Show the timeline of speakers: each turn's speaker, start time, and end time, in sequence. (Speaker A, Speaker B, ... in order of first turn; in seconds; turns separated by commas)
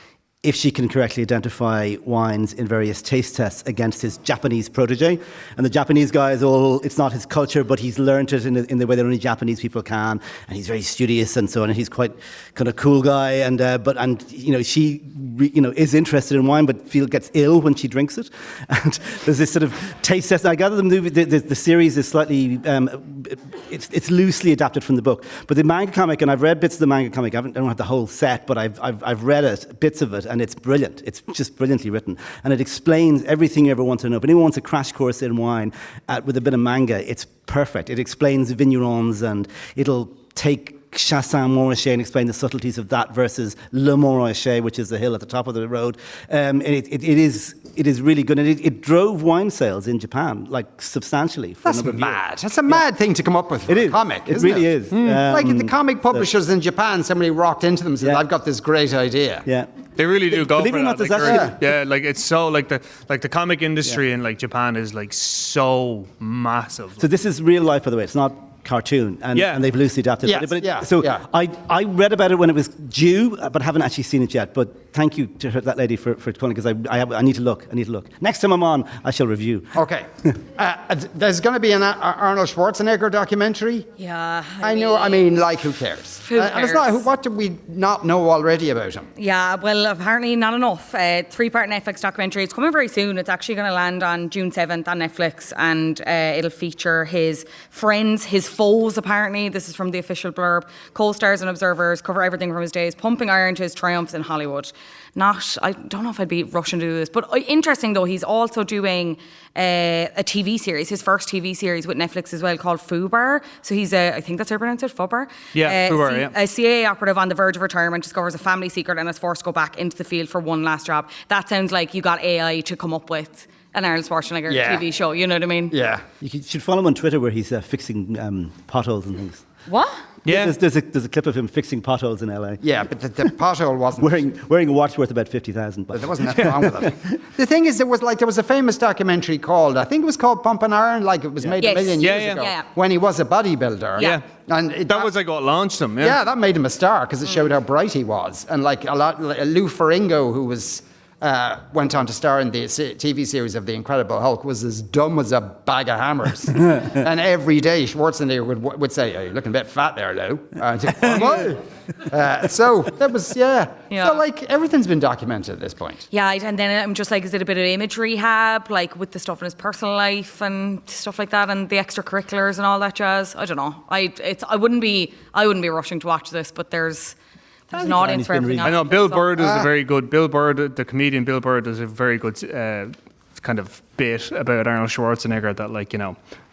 Speaker A: 0.4-52.8, Speaker B: 51.6-59.5, Speaker A: 53.7-56.3, Speaker C: 54.9-55.3, Speaker A: 59.5-59.7, Speaker C: 60.0-67.0, Speaker A: 60.3-61.6, Speaker B: 61.2-61.5, Speaker A: 67.0-79.8, Speaker C: 69.3-69.6, Speaker B: 70.2-71.2, Speaker B: 79.8-83.9, Speaker D: 84.0-85.2, Speaker B: 84.6-89.1, Speaker D: 86.2-87.0, Speaker D: 89.2-125.8, Speaker C: 115.5-116.3, Speaker B: 124.5-124.9, Speaker B: 125.7-126.0, Speaker A: 126.2-129.4, Speaker D: 129.7-130.0, Speaker C: 130.2-130.5, Speaker A: 130.3-132.6, Speaker B: 132.6-134.2, Speaker A: 134.0-137.2, Speaker B: 135.9-145.1, Speaker A: 141.4-141.7, Speaker D: 141.6-142.7, Speaker C: 142.0-142.5, Speaker C: 144.0-144.2, Speaker C: 144.9-146.2, Speaker B: 146.0-166.0, Speaker A: 161.0-161.6, Speaker D: 163.9-164.2, Speaker D: 166.1-177.2, Speaker D: 177.7-179.4, Speaker A: 177.7-178.9, Speaker C: 178.6-186.2, Speaker B: 179.4-179.7